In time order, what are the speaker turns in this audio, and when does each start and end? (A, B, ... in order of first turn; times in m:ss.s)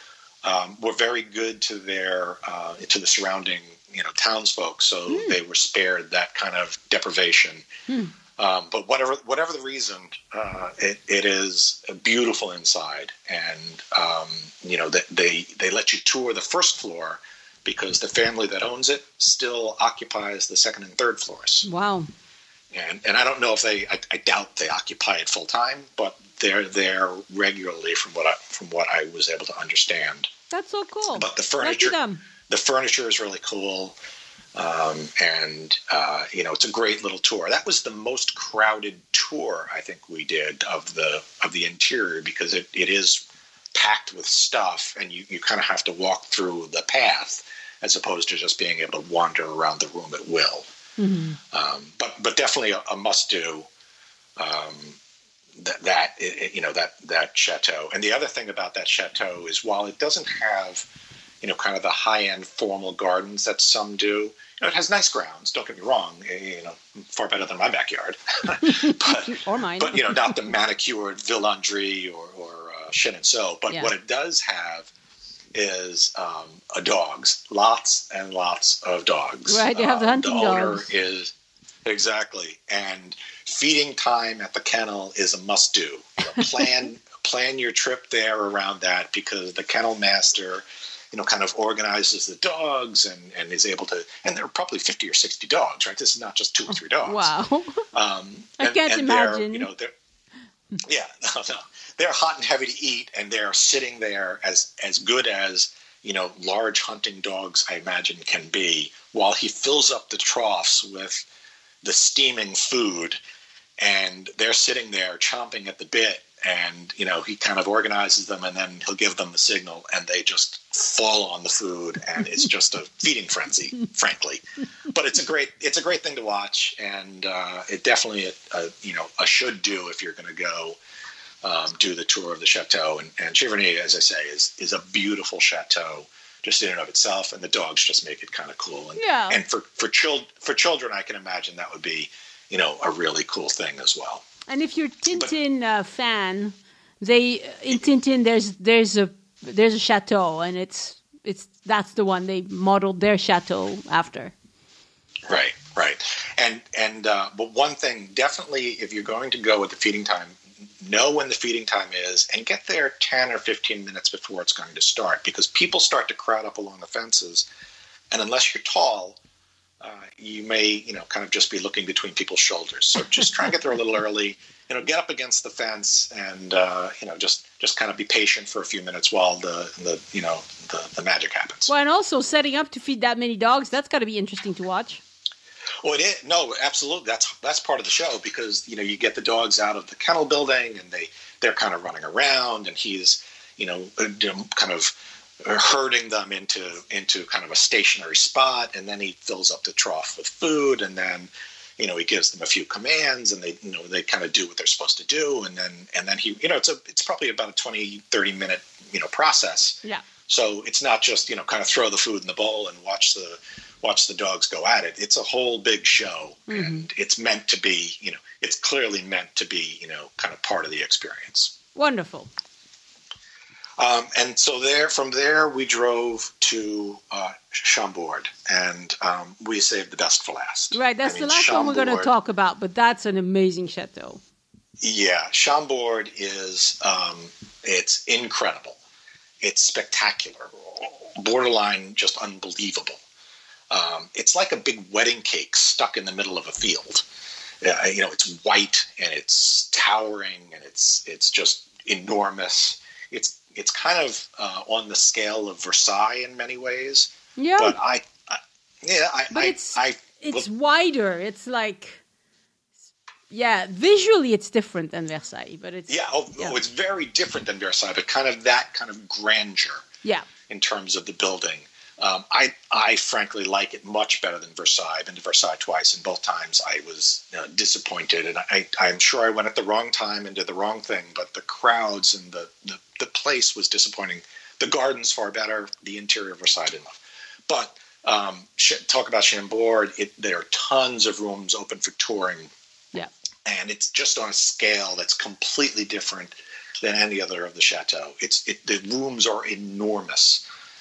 0:00.4-0:07.7 A
0:05.1-0:05.4 B
0:08.4-0:21.7 A
0:21.6-0:22.1 B
0:22.7-0:30.3 A
0:30.5-0:32.2 B
0:31.1-0:32.0 A
0:32.5-0:34.0 A
0:34.6-0:50.7 A
0:51.0-0:51.4 B
0:51.5-0:53.7 A
0:54.4-0:55.0 A
0:55.6-1:00.9 A
1:01.4-1:14.9 A
1:08.6-1:10.4 B
1:15.5-1:21.3 A
1:19.5-1:20.9 B
1:21.8-1:37.3 A
1:36.7-1:37.9 B
1:37.9-1:39.9 A
1:38.6-1:39.7 B
1:40.8-1:51.3 A
1:51.8-1:53.2 A
1:53.8-2:10.8 A
2:11.4-2:24.2 A
2:19.0-2:19.4 B
2:24.5-2:34.3 B
2:35.3-2:47.5 A
2:48.1-2:49.2 A
2:49.8-3:01.7 A
3:01.7-3:05.0 B
3:05.8-3:41.6 A
3:36.5-3:36.8 B
3:41.8-3:42.3 B
3:43.8-3:52.1 A
3:50.7-3:54.2 B
3:54.8-3:58.8 A
3:59.4-4:03.0 A
4:03.7-4:07.1 A
4:07.6-4:20.5 A
4:17.4-4:17.8 B
4:19.3-4:22.0 B
4:23.3-4:26.6 B
4:25.9-4:29.8 A
4:30.5-4:52.5 A
4:53.4-5:00.4 A